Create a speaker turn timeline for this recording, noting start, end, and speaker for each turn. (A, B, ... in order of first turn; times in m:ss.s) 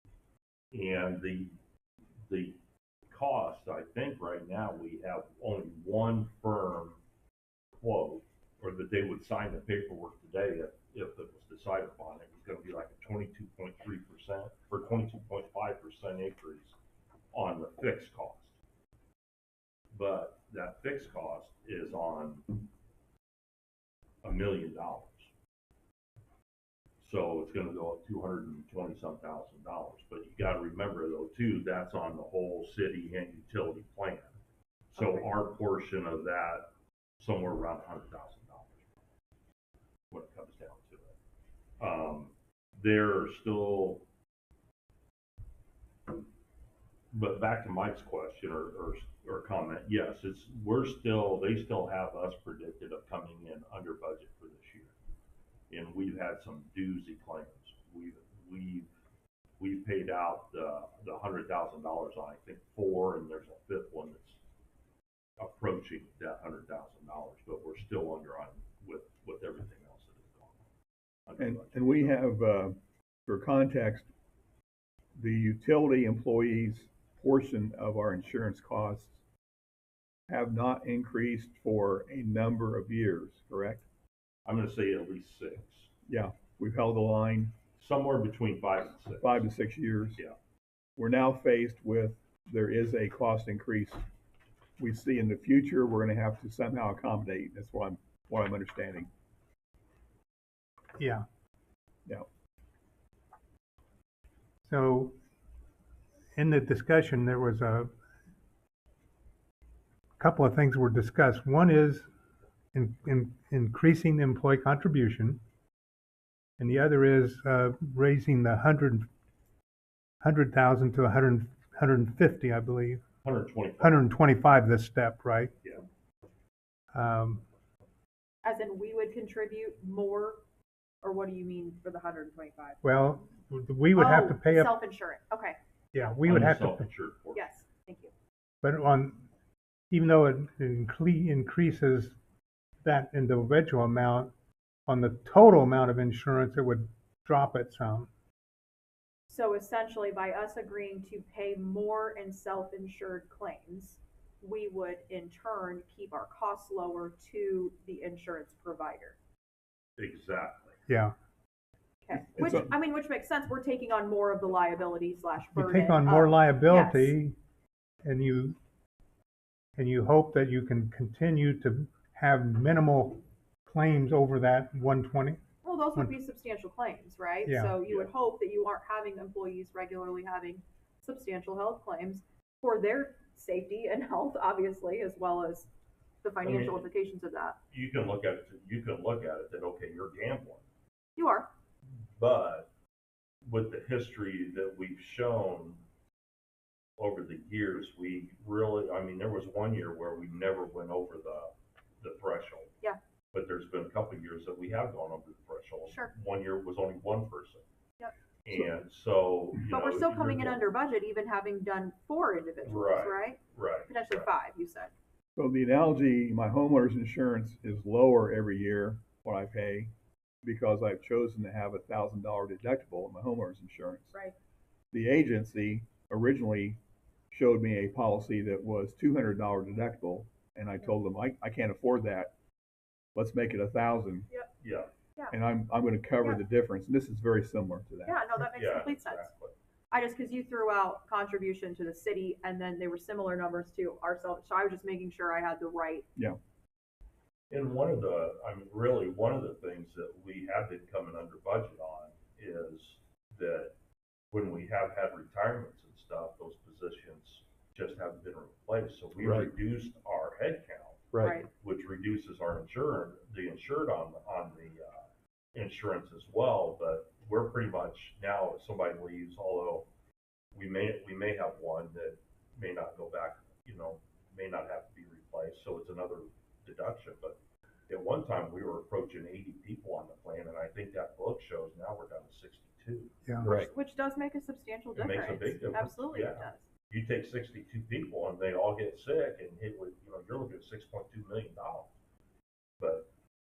0:00.7-0:01.6 A
0:02.3-0:07.0 A
0:07.8-0:16.8 A
0:17.3-0:18.6 A
0:19.9-0:22.5 A
0:24.2-0:25.3 A
0:27.0-0:34.3 A
0:34.9-0:39.0 A
0:35.0-0:35.2 B
0:40.1-0:41.2 A
0:41.8-0:44.0 A
0:47.1-0:54.9 A
0:55.7-0:58.9 A
0:59.6-1:04.4 A
1:05.4-1:10.6 A
1:11.3-1:12.2 A
1:11.4-1:14.1 C
1:15.2-1:19.2 C
1:20.3-1:23.8 C
1:24.5-1:25.9 A
1:26.1-1:27.5 C
1:27.8-1:29.5 A
1:29.2-1:30.2 C
1:31.0-1:34.0 C
1:34.8-1:39.1 C
1:41.0-1:41.2 D
1:44.7-1:45.2 D
1:46.4-1:47.9 D
1:50.2-1:52.1 D
1:52.7-1:55.4 D
1:56.6-1:59.1 D
2:00.2-2:03.0 D
2:03.2-2:04.1 A
2:03.8-2:05.5 D
2:06.9-2:07.4 D
2:08.4-2:10.4 B
2:11.0-2:12.8 B
2:12.8-2:14.8 D
2:14.0-2:15.6 B
2:15.9-2:16.9 D
2:16.2-2:17.5 A
2:17.4-2:18.1 B
2:18.6-2:19.3 D
2:19.9-2:22.2 D
2:22.8-2:24.3 D
2:24.9-2:28.1 D
2:29.3-2:39.2 B
2:40.0-2:40.8 A
2:40.9-2:41.1 D
2:42.0-2:47.1 B
2:42.3-2:42.7 C
2:45.5-2:47.4 D
2:48.0-2:48.6 D
2:49.8-2:55.4 D
2:55.6-3:05.7 B
2:57.5-2:57.8 D
2:57.8-2:58.1 A
3:06.2-3:07.6 B
3:06.4-3:06.9 A
3:07.7-3:10.6 A
3:11.2-3:11.5 B
3:12.2-3:12.7 A
3:13.5-3:15.8 A
3:17.0-3:22.7 A
3:23.3-3:27.6 A
3:28.4-3:30.6 A
3:29.7-3:34.9 B
3:32.6-3:34.3 A
3:35.4-3:39.9 C
3:40.4-3:44.2 C
3:44.9-3:52.3 C
3:53.2-3:54.3 C
3:54.6-3:54.9 A
3:55.3-3:58.2 C
3:58.1-3:59.3 B
3:58.4-3:59.6 A
3:59.9-4:06.1 B
4:07.5-4:13.8 A
4:14.3-4:29.9 A
4:19.2-4:19.5 C
4:21.2-4:21.5 B
4:30.5-4:43.7 A
4:43.4-4:43.7 C
4:43.4-4:46.6 B
4:45.0-4:51.9 A
4:52.8-4:53.1 A